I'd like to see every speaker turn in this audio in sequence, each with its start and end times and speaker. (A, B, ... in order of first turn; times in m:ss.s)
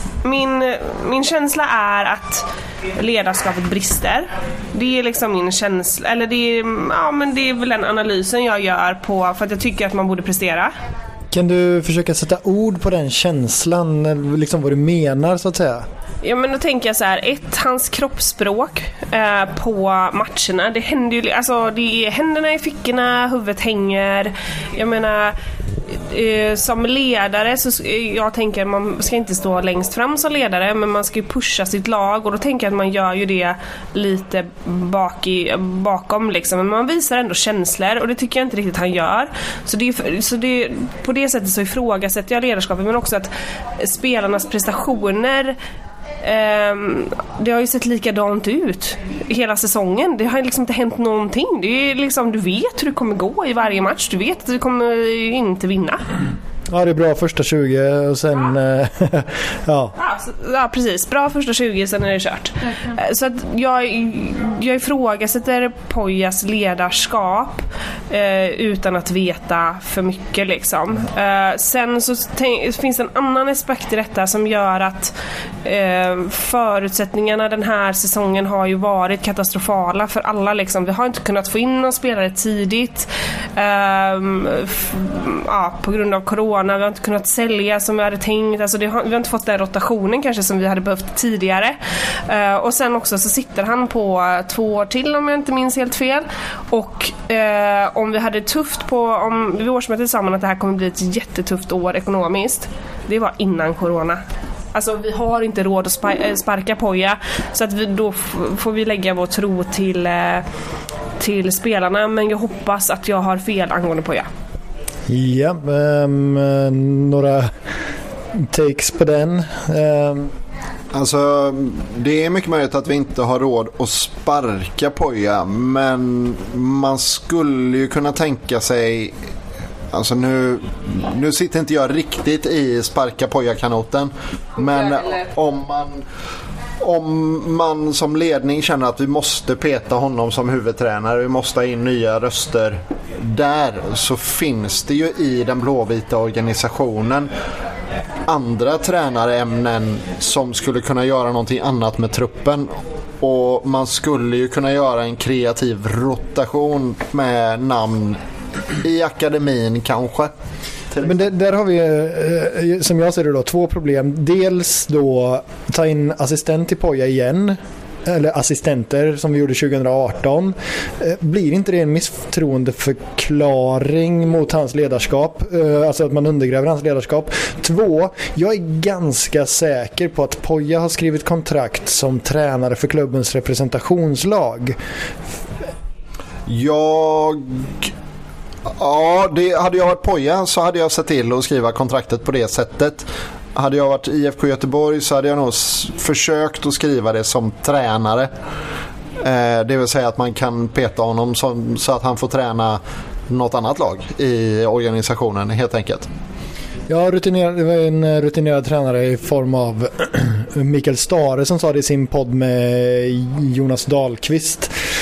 0:00.2-0:10.7 A
0:11.3-0:15.8 B
0:16.2-0:25.4 A
0:25.9-0:45.6 A
0:46.2-0:56.0 A
0:56.7-0:59.9 B
1:00.0-1:44.2 A
1:44.7-1:50.5 A
1:51.2-1:54.3 A
1:55.1-1:57.5 B
1:58.4-2:00.3 B
2:00.9-2:09.1 C
2:09.9-2:16.0 C
2:16.8-2:27.3 C
2:28.3-2:38.2 C
2:38.8-2:40.3 C
2:40.9-2:41.2 C
2:41.0-3:04.8 B
3:06.5-3:07.9 C
3:08.7-3:18.3 C
3:19.2-3:26.1 C
3:26.9-3:34.7 B